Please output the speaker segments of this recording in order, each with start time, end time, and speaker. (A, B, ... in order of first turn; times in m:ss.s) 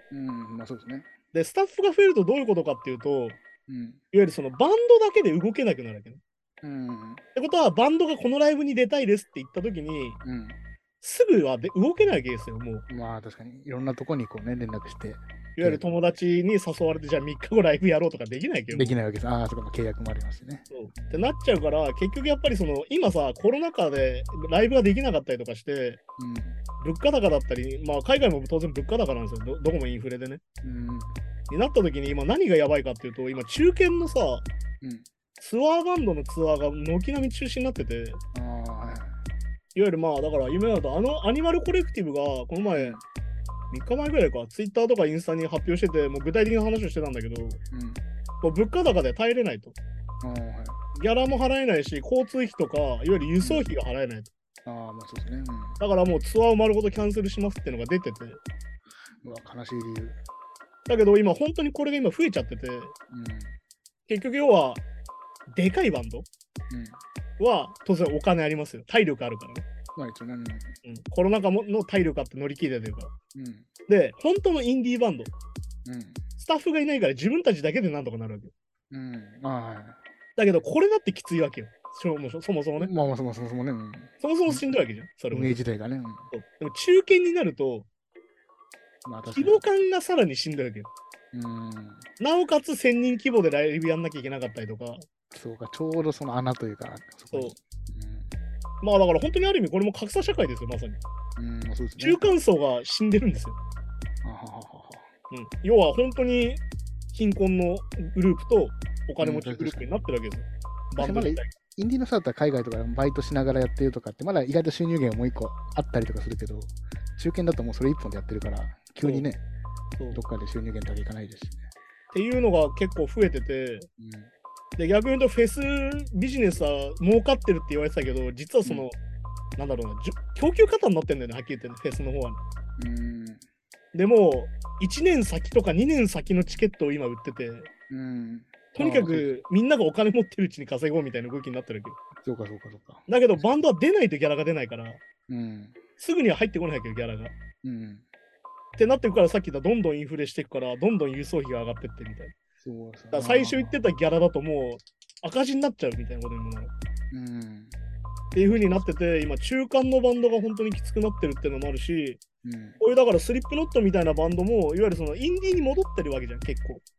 0:00.1-0:01.1 A
0:01.3-0:03.4 B
0:03.7-0:04.0 A
0:04.1-0:06.2 B
0:06.6-0:07.2 A
0:07.4-0:10.2 B
0:10.2-0:10.6 A
0:11.0-0:12.8 B
0:12.9-0:15.8 A
0:15.6-0:19.0 B
0:18.7-0:21.3 A
0:20.7-0:26.0 B
0:26.2-0:26.6 A
0:26.8-0:30.4 B
0:30.6-0:31.1 A
0:31.5-0:34.5 B
0:35.4-0:38.2 B
0:38.3-0:39.2 A
0:39.8-0:43.0 B
0:43.7-0:47.6 B
0:47.7-0:48.0 A
0:48.4-0:49.8 B
0:50.2-0:50.8 A
0:51.0-0:54.3 B
0:53.4-0:53.7 A
0:54.6-0:55.8 A
0:55.8-0:58.4 B
0:59.2-1:00.2 A
1:00.9-1:03.0 B
1:03.1-1:03.5 A
1:04.1-1:04.8 B
1:05.5-1:06.3 B
1:06.7-1:07.0 A
1:07.4-1:09.6 B
1:10.0-1:10.8 A
1:10.8-1:13.1 B
1:13.4-1:13.7 A
1:13.9-1:15.3 B
1:15.8-1:16.2 A
1:16.4-1:18.5 B
1:18.9-1:20.0 A
1:20.4-1:22.9 B
1:22.8-1:24.7 A
1:24.2-1:25.6 B
1:25.3-1:26.3 A
1:26.3-1:27.9 B
1:29.0-1:29.6 A
1:29.3-1:30.9 B
1:31.3-1:32.1 A
1:32.2-1:35.0 B
1:35.3-1:38.3 A
1:38.8-1:41.0 B
1:41.4-1:42.4 A
1:42.0-1:43.6 B
1:44.2-1:45.1 A
1:45.3-1:51.5 B
1:49.2-1:49.9 A
1:51.0-1:59.4 A
1:59.0-1:59.3 B
2:00.0-2:00.2 B
2:00.1-2:01.7 A
2:02.1-2:03.9 B
2:04.0-2:04.3 A
2:04.8-2:09.0 B
2:09.6-2:12.4 B
2:12.8-2:13.4 A
2:13.9-2:17.7 B
2:17.9-2:19.3 A
2:18.7-2:22.0 B
2:22.2-2:23.1 A
2:23.1-2:25.0 B
2:25.3-2:25.8 A
2:26.0-2:27.3 B
2:27.6-2:28.0 A
2:28.8-2:32.3 B
2:32.6-2:33.8 A
2:33.1-2:36.7 B
2:37.1-2:37.7 A
2:38.3-2:42.2 B
2:38.4-2:38.9 A
2:42.4-2:42.8 A
2:42.8-2:46.8 B